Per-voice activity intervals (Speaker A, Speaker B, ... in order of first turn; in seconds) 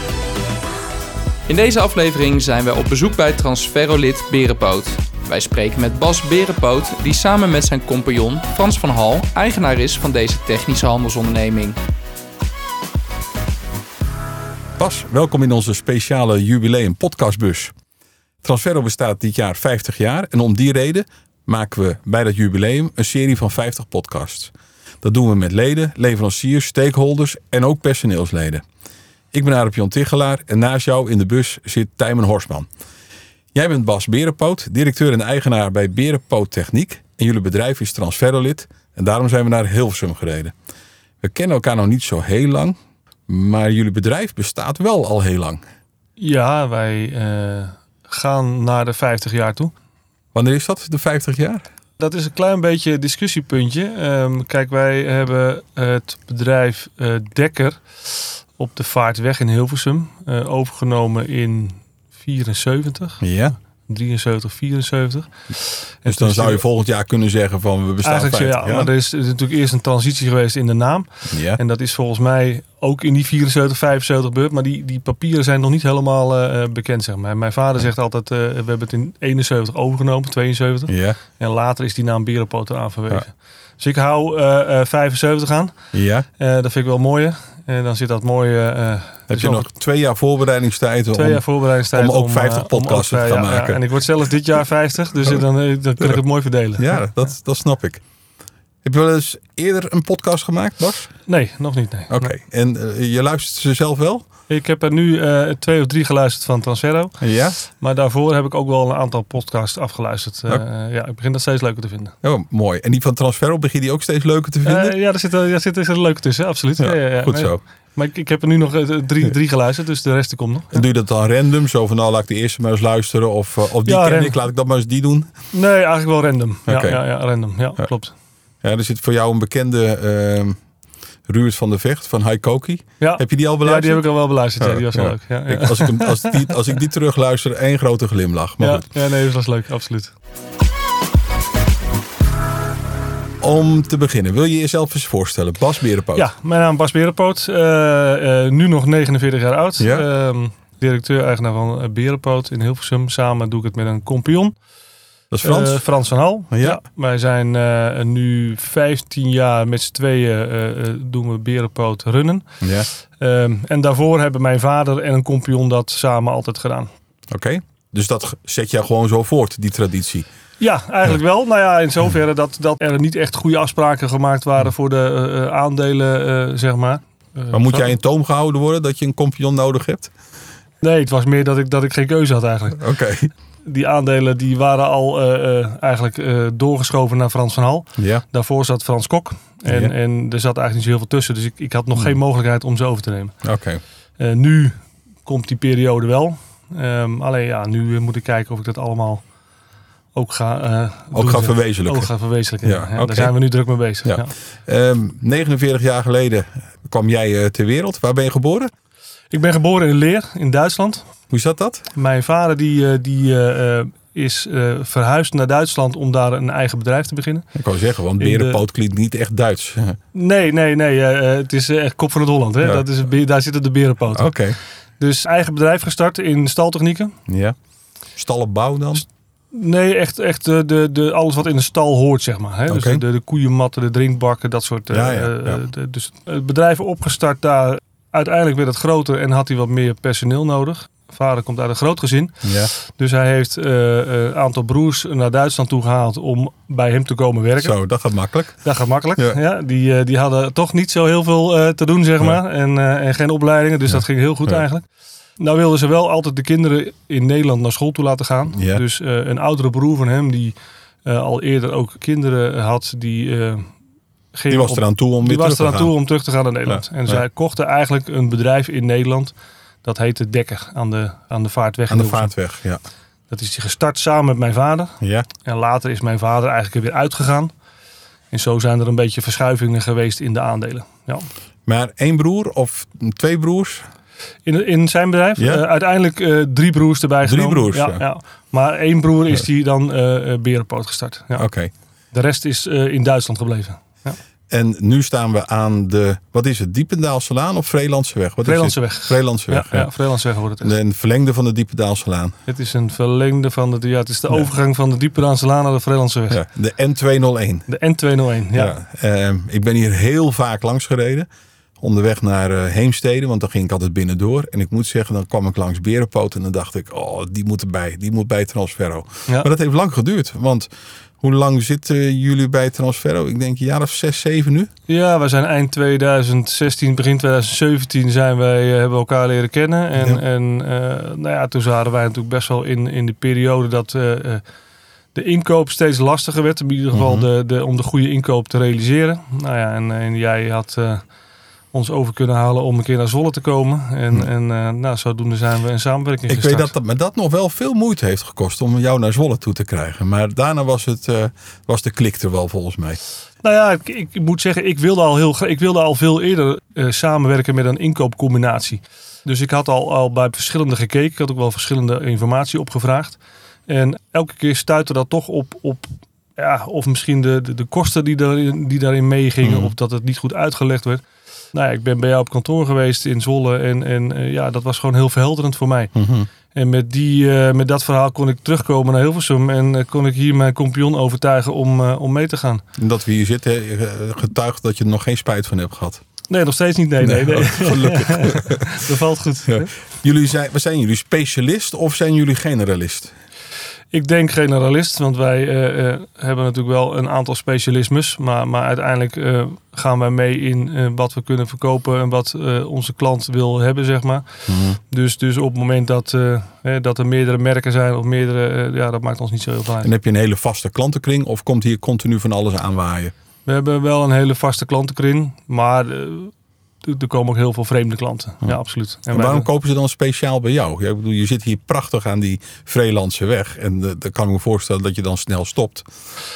Speaker A: 1.5-11.8
Speaker B: 14.8-17.7, 18.4-28.6, 29.3-32.7, 33.5-40.5, 41.2-42.8, 43.3-45.6, 50.4-51.6, 63.2-63.6, 66.1-68.9, 71.3-71.6, 80.9-81.2, 85.9-86.3, 89.3-93.8, 96.8-98.0, 98.8-101.1, 102.1-104.2, 107.2-107.6, 112.2-115.0, 116.8-117.6, 120.7-125.3, 126.7-127.0, 128.6-130.6, 131.3-134.1, 134.6-138.9, 143.4-146.3, 149.8-150.1, 155.3-155.9, 156.5-156.8, 162.6-162.9, 167.3-170.3, 177.5-180.1, 182.8-183.3, 188.0-188.2, 193.4-193.8, 201.1-202.1, 202.6-203.3, 204.1-208.7, 211.3-211.9, 217.6-220.0, 222.6-222.9, 224.1-224.6, 227.3-227.6, 228.2-229.1, 232.7-233.0, 234.9-235.6, 242.4-242.7, 247.6-249.4, 253.9-254.6, 258.5-258.8, 264.5-266.0, 266.7-267.2, 271.9-272.8, 275.0-275.3, 281.7-283.9, 285.4-285.6, 287.2-288.0, 291.4-291.7, 294.5-299.9, 300.6-302.4, 306.3-307.7, 308.5-311.3, 311.8-320.7, 321.2-324.7, 329.9-330.2, 336.9-337.3, 346.3-353.0, 369.4-369.7, 375.9-376.3, 382.8-386.0, 387.0-388.8, 389.5-393.1, 404.5-404.8, 409.8-413.1, 419.1-425.9
Speaker C: 46.2-49.7, 52.0-63.3, 63.9-66.6, 68.0-85.8, 86.4-89.7, 91.1-97.0, 101.3-102.3, 104.5-112.1, 114.6-120.8, 123.8-124.4, 125.5-128.1, 133.0-136.6, 138.6-140.1, 146.2-154.6, 155.4-162.5, 163.2-166.9, 170.6-177.9, 180.8-182.9, 183.6-193.3, 194.2-199.2, 200.1-204.3, 209.3-211.1, 211.9-217.5, 218.2-218.6, 220.1-224.3, 225.0-227.1, 229.5-247.8, 248.6-254.8, 255.4-263.7, 264.3-272.3, 273.3-277.5, 278.3-281.3, 284.4-291.5, 292.1-294.2, 298.4-300.7, 302.5-306.4, 307.7-308.8, 324.9-334.4, 335.1-341.0, 341.7-346.7, 353.4-375.9, 376.5-382.6, 386.3-389.7, 393.9-404.3, 404.9-409.9, 413.4-419.5